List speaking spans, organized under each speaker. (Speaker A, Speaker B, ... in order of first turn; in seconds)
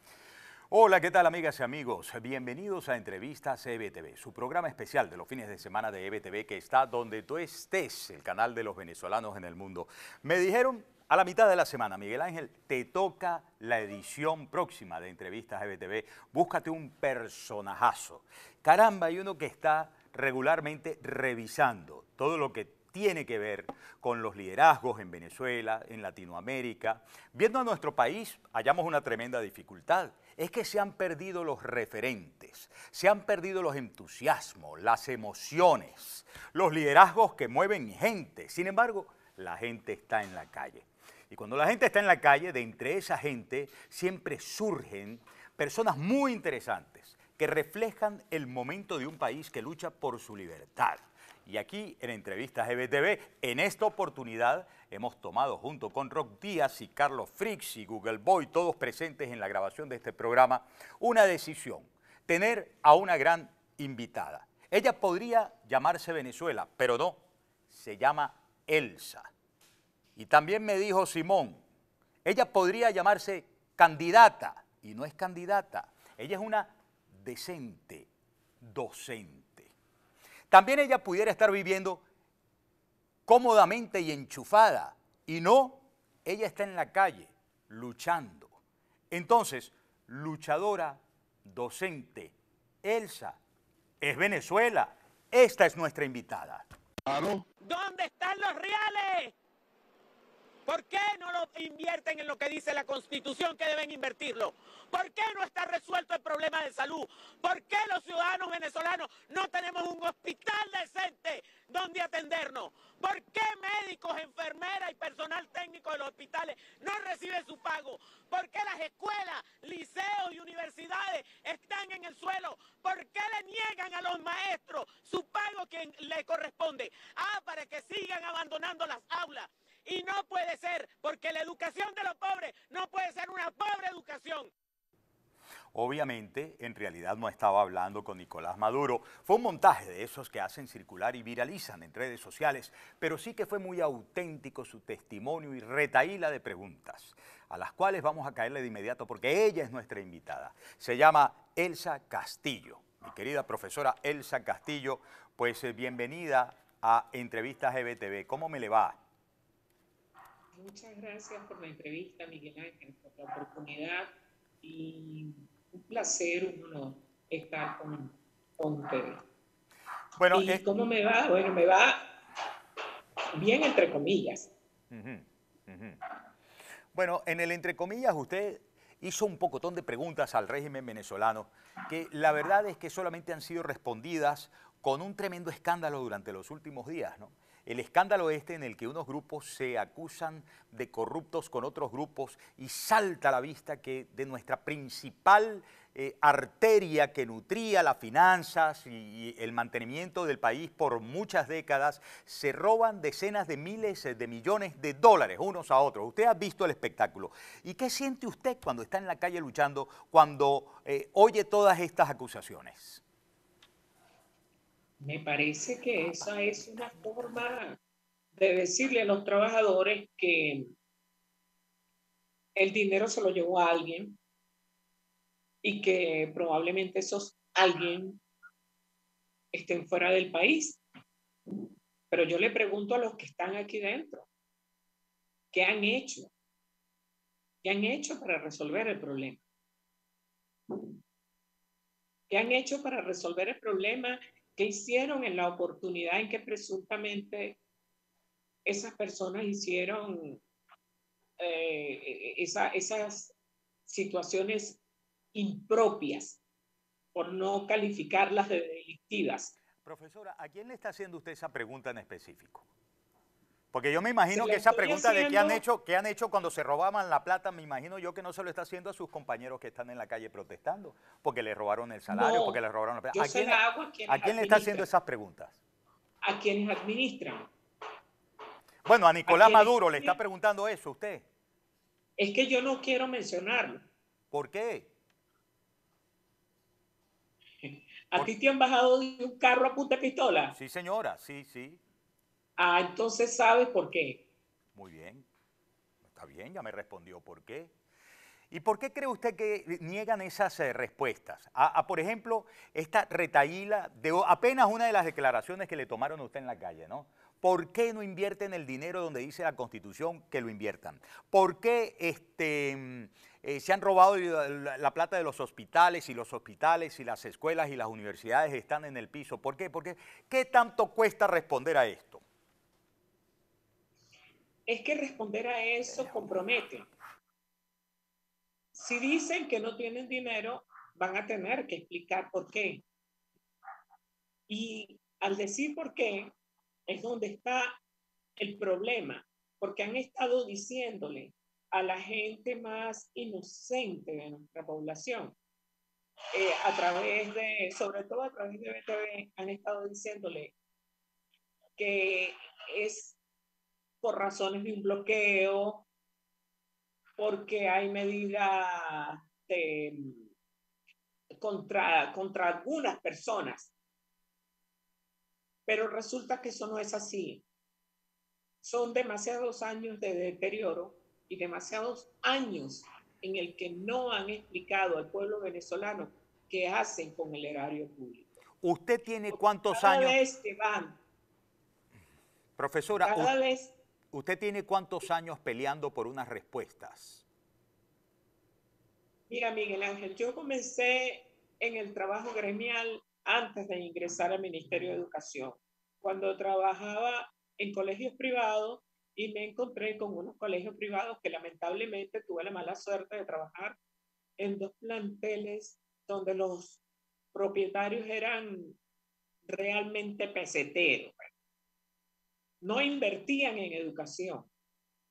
Speaker A: 0.7-69.3, 70.2-71.6, 72.2-78.1, 78.6-79.7, 80.5-82.0, 83.3-88.5, 89.1-93.4, 94.0-96.7, 135.7-159.0, 170.2-170.6, 174.9-176.0, 176.9-213.0, 259.8-262.6, 263.7-275.6, 278.9-281.3, 284.3-284.9, 290.5-291.8, 294.8-295.3, 296.1-297.7, 298.5-322.2, 378.6-380.2, 382.6-383.3, 384.1-387.2
Speaker B: 97.6-99.3, 100.7-134.5
Speaker C: 160.5-169.2, 170.3-172.1, 173.3-174.5, 215.0-217.8, 218.3-220.7, 222.6-224.2, 225.6-228.2, 229.5-230.8, 232.1-234.3, 235.5-236.3, 237.6-239.4, 242.3-247.6, 248.7-250.4, 251.4-253.3, 253.9-254.8, 255.3-256.4, 257.1-259.5, 264.3-265.6, 272.1-272.6, 273.1-274.9, 276.2-277.5, 279.3-280.2, 282.2-283.9, 287.6-290.6, 292.6-294.2, 324.7-326.9, 328.7-332.8, 334.5-336.3, 336.9-337.8, 338.4-345.4, 346.3-350.5, 351.8-353.2, 354.0-355.9, 357.2-360.2, 361.4-363.7, 365.7-367.4, 368.6-378.4, 379.3-381.0, 383.0-383.8, 389.3-403.8, 404.4-406.8, 407.3-408.8, 409.4-411.3, 412.6-414.5